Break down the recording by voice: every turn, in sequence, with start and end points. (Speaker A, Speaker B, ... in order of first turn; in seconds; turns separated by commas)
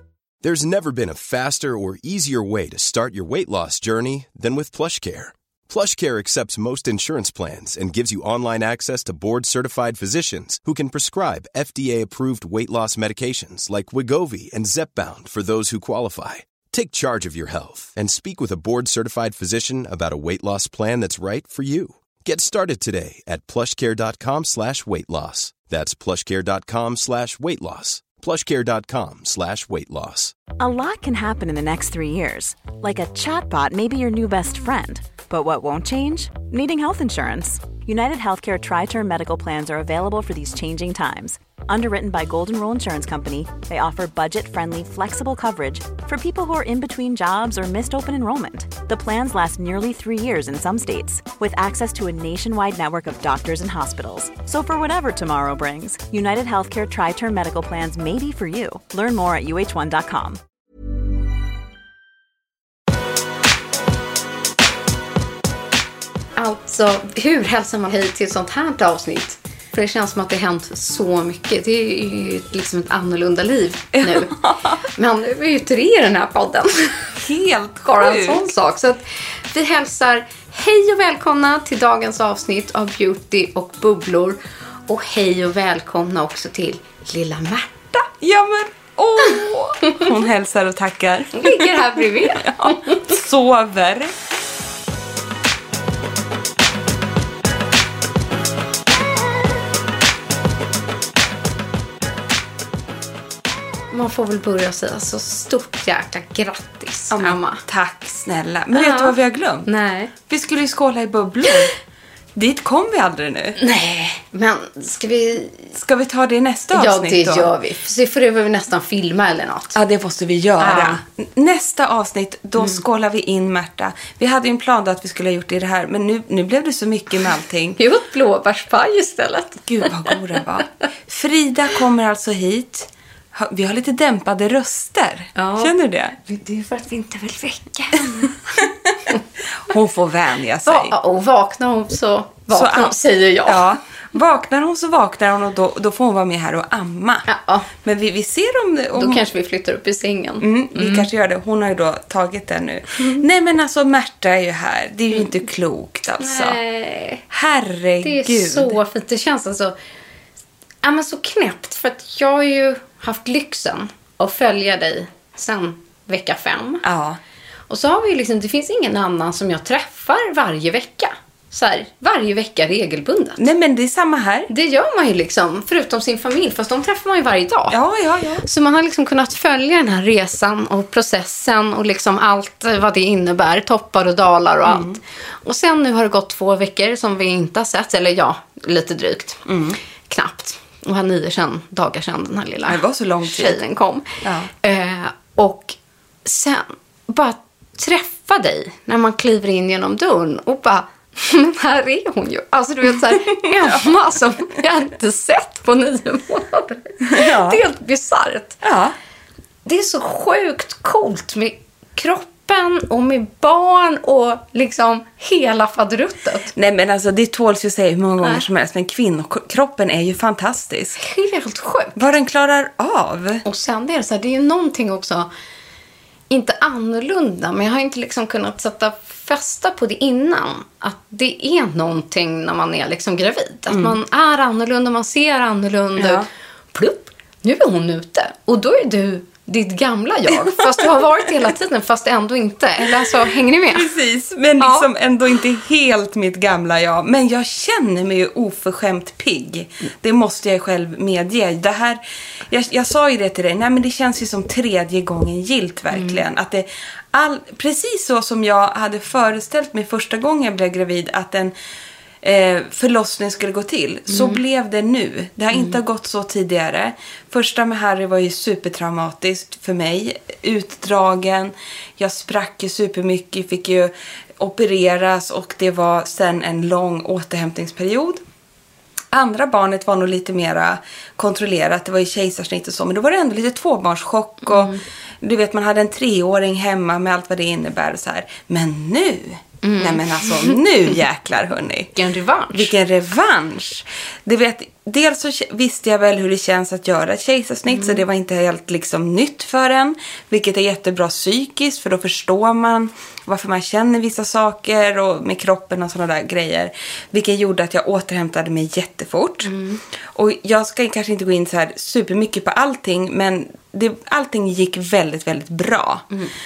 Speaker A: 0.4-30.4, Speaker B: 30.6-60.4, Speaker C: 66.4-74.3, Speaker D: 74.0-74.8, Speaker C: 74.9-77.1, Speaker D: 77.2-78.5, Speaker C: 77.9-88.1, Speaker D: 88.2-94.1, Speaker C: 91.3-93.1, Speaker C: 103.9-107.6, Speaker D: 107.1-111.7, Speaker C: 108.7-110.1, Speaker D: 112.3-113.6, Speaker C: 113.6-115.7, Speaker D: 115.7-117.5, Speaker C: 116.7-119.8, Speaker D: 119.7-127.8, Speaker C: 120.6-121.0, Speaker C: 127.8-130.2, Speaker D: 129.7-136.2, Speaker C: 135.4-139.2, Speaker D: 139.7-140.9, Speaker C: 140.7-143.8, Speaker D: 142.5-147.3, Speaker C: 147.3-147.7, Speaker D: 147.8-149.2, Speaker C: 148.9-151.1, Speaker D: 150.4-156.6, Speaker C: 156.2-157.2, Speaker D: 157.3-158.8, Speaker C: 158.0-159.8, Speaker C: 160.8-166.8, Speaker D: 166.8-167.2, Speaker C: 167.7-173.4, Speaker D: 173.4-174.5, Speaker C: 174.5-177.8, Speaker D: 177.7-178.4, Speaker C: 178.4-189.5, Speaker D: 184.7-185.0, Speaker D: 189.5-189.8, Speaker C: 190.1-208.6, Speaker D: 192.7-193.6, Speaker D: 194.2-194.5, Speaker D: 203.6-203.9, Speaker D: 207.1-207.6, Speaker D: 208.6-208.9, Speaker C: 209.7-216.5, Speaker D: 216.6-221.0, Speaker C: 221.0-222.0, Speaker D: 222.0-223.4, Speaker C: 223.4-225.3, Speaker C: 226.3-243.9, Speaker D: 233.7-233.9, Speaker D: 236.0-236.3, Speaker D: 240.5-240.9, Speaker D: 242.8-261.6, Speaker C: 244.6-244.9, Speaker C: 255.9-256.2, Speaker D: 262.2-278.2, Speaker C: 264.1-264.4, Speaker C: 265.5-265.8, Speaker D: 279.1-292.0, Speaker C: 284.5-284.8, Speaker C: 289.6-290.6, Speaker C: 291.9-292.7, Speaker D: 292.5-309.5, Speaker C: 297.7-298.0, Speaker C: 309.4-309.8, Speaker D: 310.1-316.1